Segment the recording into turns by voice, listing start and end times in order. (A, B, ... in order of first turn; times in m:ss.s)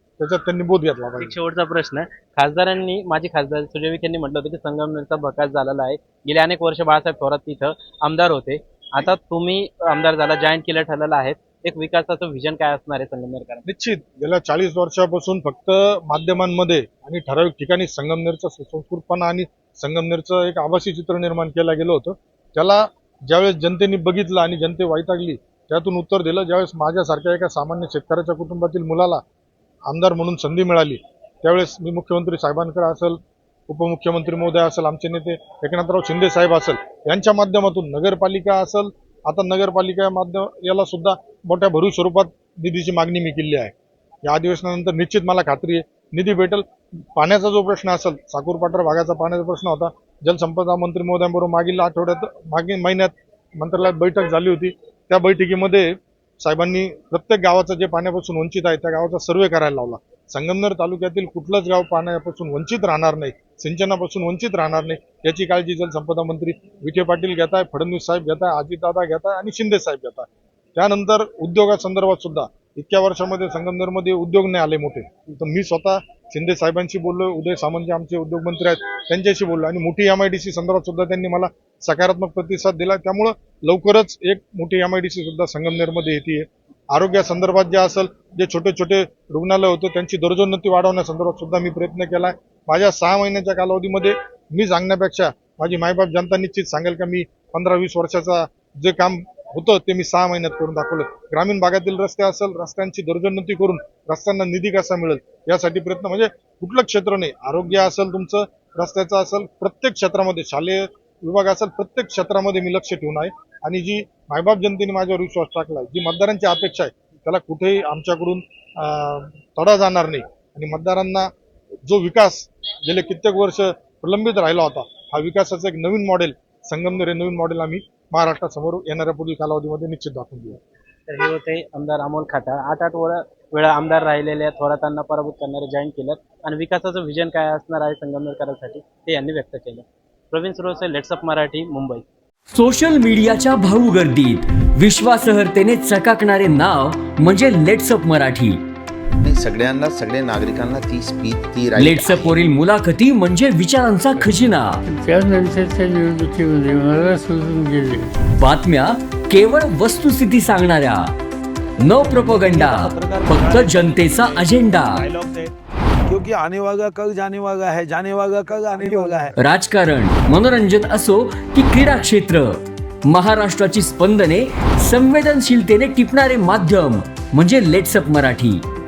0:00.2-0:01.4 A
0:01.2-0:13.6 B
0:13.6-0:29.2 A
0:29.9-0:55.9 A
0:56.4-2:01.3 A
2:01.8-2:10.6 A
2:11.1-2:22.0 B
2:22.5-2:28.6 C
2:29.2-2:32.5 D
2:31.8-2:34.8 C
2:34.2-2:38.1 E
2:38.2-2:41.1 C
2:41.8-2:45.1 C
2:41.8-2:45.5 F
2:46.1-2:49.3 F
2:49.4-2:58.6 C